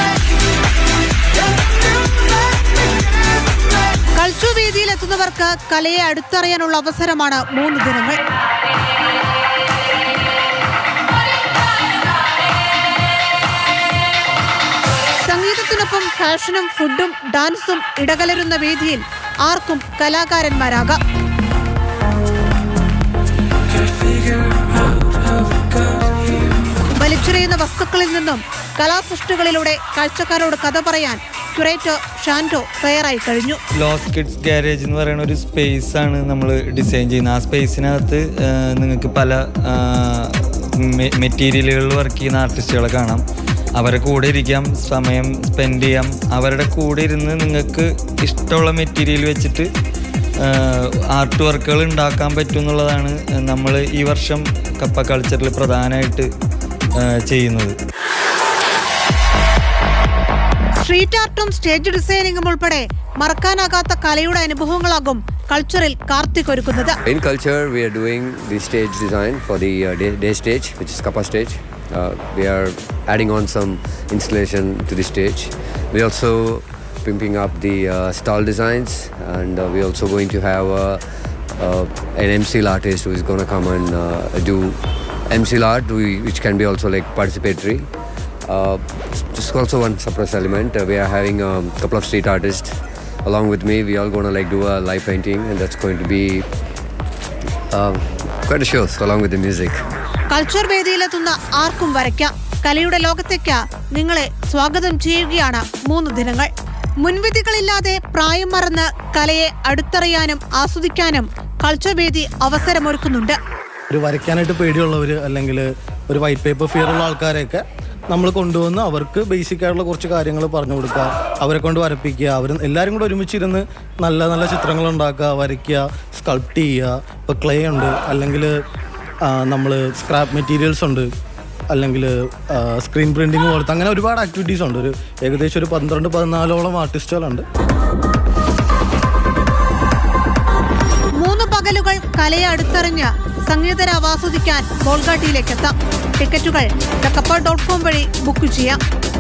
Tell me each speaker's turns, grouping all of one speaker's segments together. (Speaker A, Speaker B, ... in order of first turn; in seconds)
Speaker A: 4.2-8.2, 15.3-21.0, 26.9-33.6, 60.8-67.0, 100.3-106.5, 107.0-113.4, 141.2-148.8
Speaker B: 33.8-43.2, 43.8-49.7, 50.4-56.3, 57.0-57.7
Speaker C: 67.0-81.0, 81.5-87.9, 88.5-96.5, 97.7-99.8
Speaker D: 113.9-128.6, 129.2-131.1, 131.7-137.4